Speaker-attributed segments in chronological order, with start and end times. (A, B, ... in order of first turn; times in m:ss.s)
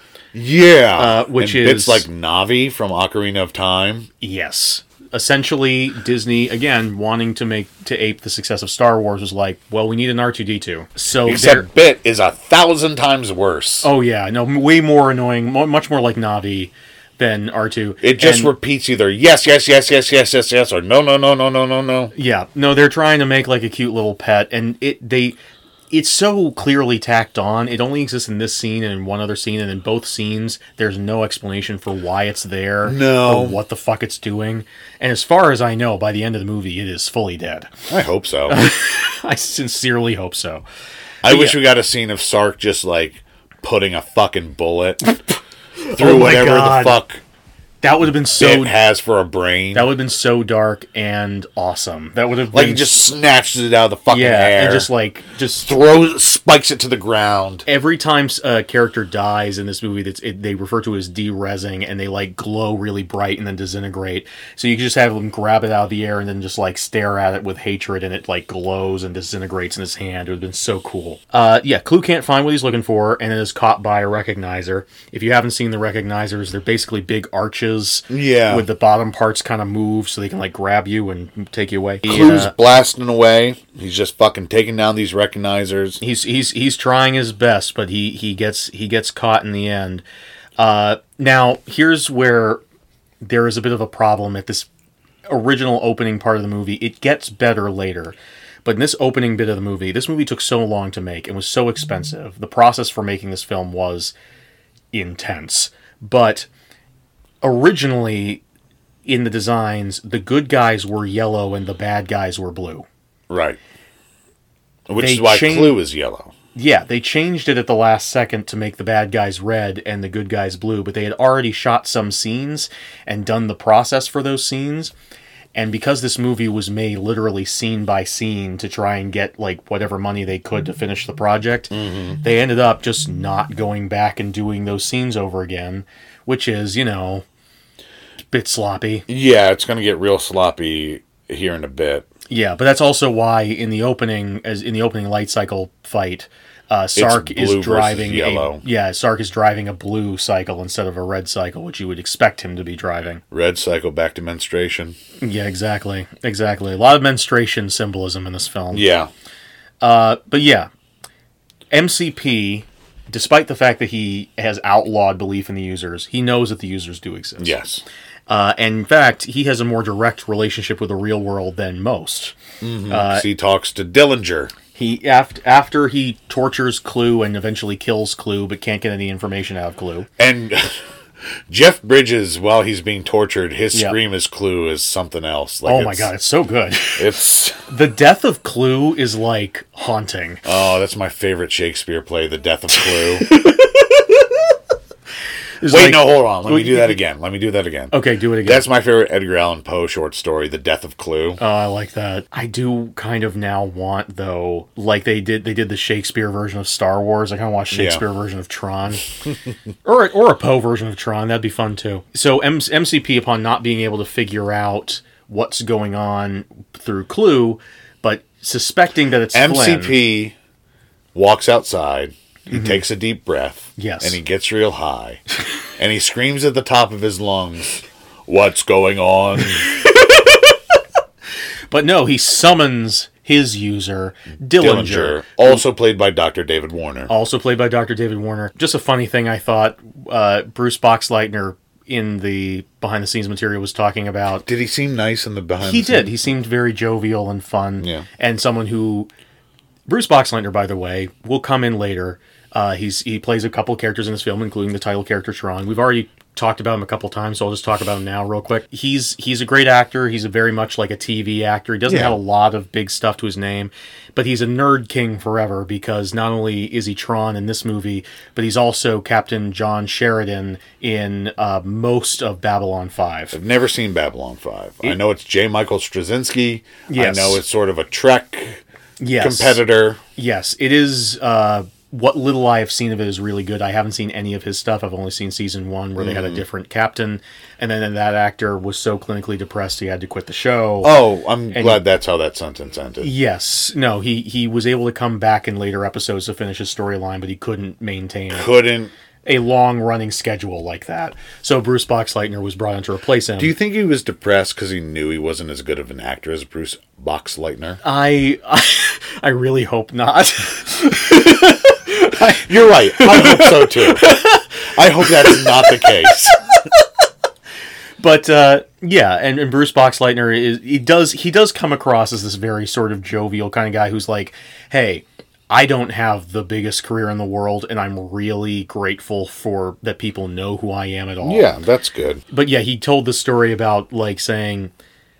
0:00.3-0:04.1 A
0:01.0-0:02.0 B
0:04.2-0:11.7 B
0:11.3-0:13.9 A
0:13.8-0:18.5 B
0:18.0-0:22.1 A
0:22.1-0:25.4 B
0:25.9-0:37.7 B
0:32.8-0:33.6 A
0:37.9-0:38.6 A
0:38.5-0:40.6 B
0:41.2-0:45.1 A
0:41.2-0:41.6 B
0:45.8-0:47.0 B
0:45.9-0:47.2 A
0:47.8-0:48.7 B
0:48.4-0:49.9 A
0:49.7-0:53.0 B
0:52.5-0:54.9 A
0:54.1-0:55.7 B
0:55.6-0:57.6 A
0:57.7-1:22.5 B
1:18.1-1:18.7 A
1:22.0-1:26.0 A
1:26.0-1:30.0 B
1:30.6-1:32.6 B
1:33.2-1:34.7 B
1:35.3-1:44.1 B
1:44.9-1:46.5 B
1:47.4-1:48.4 B
1:49.0-1:52.9 B
1:53.3-1:53.6 A
1:54.9-1:56.3 A
1:55.0-1:55.8 B
1:56.6-2:04.9 B
2:05.5-2:17.2 B
2:11.7-2:12.2 A
2:18.3-2:19.0 B
2:19.1-2:22.0 A
2:22.3-2:33.2 B
2:27.0-2:28.6 A
2:33.3-2:35.0 A
2:35.2-2:38.8 B
2:38.7-2:39.1 A
2:39.8-2:40.7 B
2:41.7-2:47.6 B
2:47.4-2:47.8 A
2:48.3-2:52.3 B
2:52.6-2:54.5 A
2:52.9-2:53.3 B
2:54.7-3:00.1 B
3:00.2-3:00.8 A
3:01.5-3:06.1 A
3:05.7-3:07.0 B
3:07.0-3:07.6 A
3:07.7-3:10.4 B
3:10.4-3:13.3 A
3:12.9-3:14.2 B
3:15.6-3:17.0 B
3:15.6-3:21.4 A
3:17.9-3:18.7 B
3:21.4-3:29.0 B
3:27.7-3:28.0 A
3:29.8-3:40.0 B
3:39.3-3:40.3 A
3:41.1-3:45.2 A
3:42.5-3:42.8 B
3:43.8-3:44.2 B
3:45.8-3:49.7 A
3:51.7-3:55.6 B
3:54.5-3:57.1 A
3:57.1-4:04.4 B
4:04.4-4:06.1 A
4:05.6-4:09.1 B
4:07.8-4:08.0 A
4:09.9-4:33.4 B
4:21.9-4:22.2 A
4:33.3-4:38.6 A
4:36.9-4:37.4 B
4:39.0-4:39.6 B
4:39.2-4:40.0 A
4:40.2-4:50.9 B
4:46.0-4:46.4 A
4:50.8-4:53.1 A
4:51.5-4:51.8 B
4:53.0-4:58.5 B
4:58.3-4:58.9 A
4:59.2-5:03.5 B
5:03.4-5:07.8 A
5:07.8-5:14.4 B
5:12.2-5:14.1 A
5:14.7-5:16.4 A
5:15.0-5:15.8 B
5:18.0-5:31.5 B
5:31.2-5:32.2 A
5:32.3-5:34.7 B